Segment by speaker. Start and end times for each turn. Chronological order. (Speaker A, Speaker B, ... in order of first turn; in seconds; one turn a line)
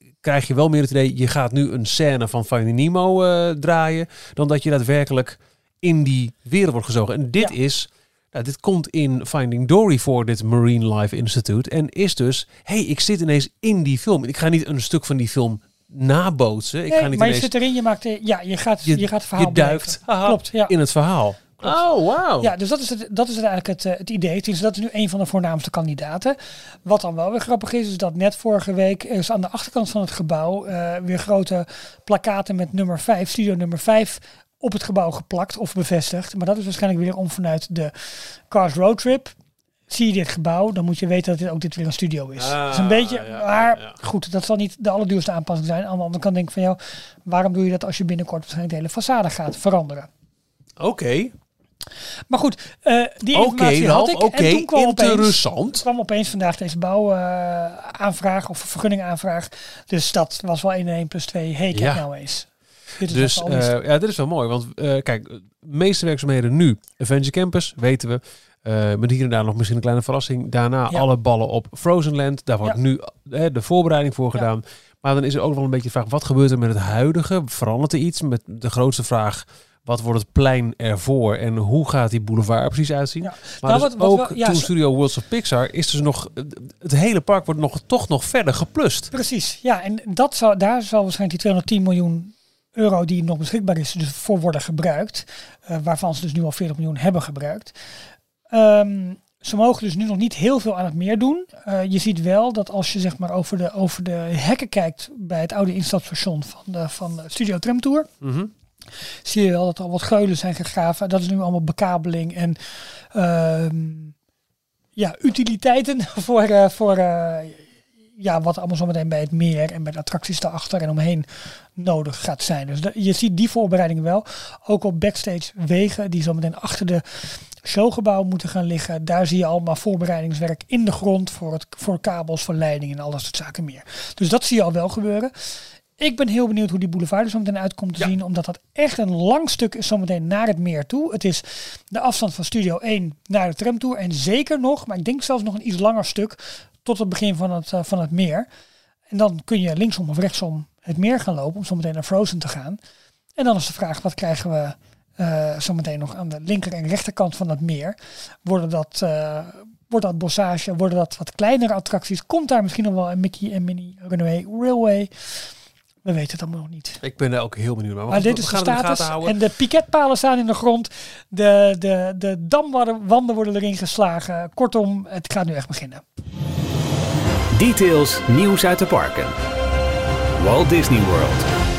Speaker A: 0.2-17.5
Speaker B: 16.9-20.7
Speaker A: 18.8-22.5
Speaker B: 22.4-39.3
Speaker B: 39.9-50.1
Speaker A: 42.4-43.9
Speaker A: 50.8-51.3
Speaker B: 52.3-62.5
Speaker A: 53.3-55.8
Speaker A: 61.7-62.0
Speaker B: 63.0-63.7
Speaker A: 63.0-89.1
Speaker B: 83.2-84.7
Speaker B: 89.1-97.7
Speaker B: 98.5-108.1
Speaker A: 108.2-108.5
Speaker B: 109.2-114.1
Speaker B: 115.0-148.5
Speaker B: 149.1-152.8
Speaker B: 153.4-165.4
Speaker B: 166.0-167.0
Speaker A: 167.0-169.3
Speaker B: 168.1-176.0
Speaker C: 177.5-179.3
Speaker C: 180.4-181.5